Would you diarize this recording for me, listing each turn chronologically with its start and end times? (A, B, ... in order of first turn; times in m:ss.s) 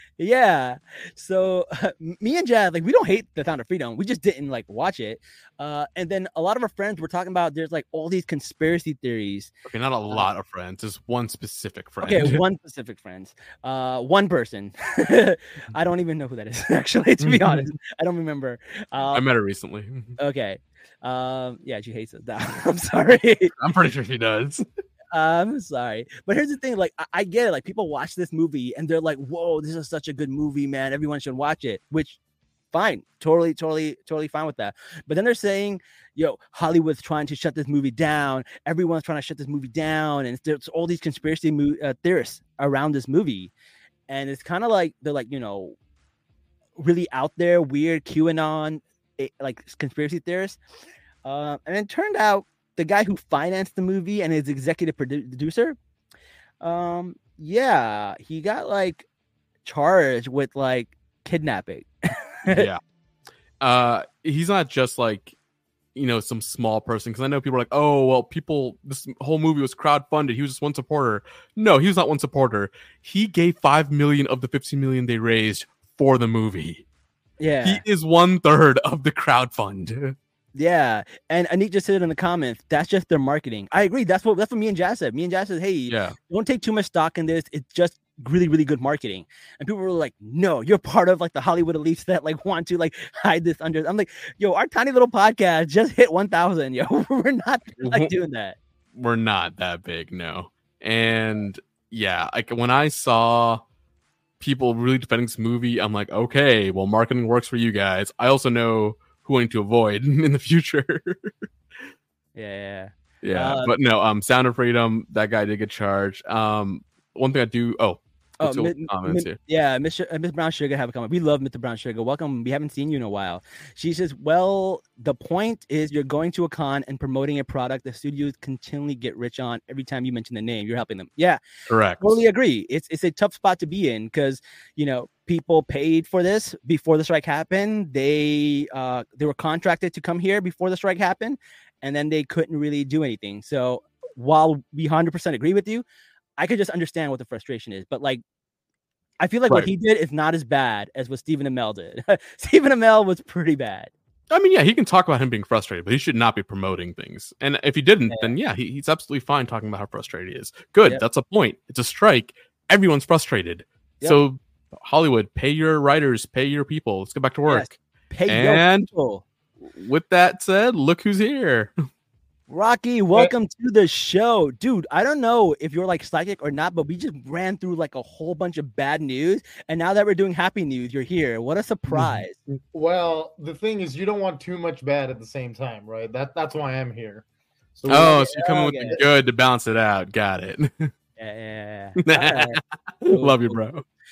0:00.2-0:09.5 A
0:09.6-0:12.4 B
0:12.0-0:19.2 A
0:17.2-0:17.6 B
0:19.1-0:20.2 B
0:20.2-0:23.5 A
0:23.6-0:24.6 B
0:25.1-0:32.2 A
0:32.7-0:43.5 A
0:44.1-0:45.8 A
0:46.8-0:50.6 A
0:51.2-0:55.8 A
0:56.6-0:59.1 A
0:59.6-1:01.9 A
1:02.5-1:02.8 B
1:03.6-1:05.4 B
1:06.0-1:16.8 B
1:17.4-1:17.8 A
1:17.6-1:20.2 B
1:20.6-1:38.6 A
1:25.9-1:26.2 B
1:37.8-1:38.1 B
1:38.9-1:43.6 B
1:44.4-1:51.4 B
1:52.4-1:53.7 A
1:53.2-1:59.4 B
1:58.4-2:11.4 A
2:11.7-2:12.2 B
2:12.0-2:25.8 A
2:26.4-2:28.2 A
2:29.2-2:33.9 A
2:34.3-2:48.9 B
2:38.1-2:38.3 A
2:47.5-2:49.2 A
2:49.6-2:51.8 B
2:52.5-3:02.4 A
3:02.7-3:09.0 C
3:07.9-3:10.9 B
3:08.0-3:09.0 A
3:11.2-3:13.6 A
3:12.0-3:13.8 B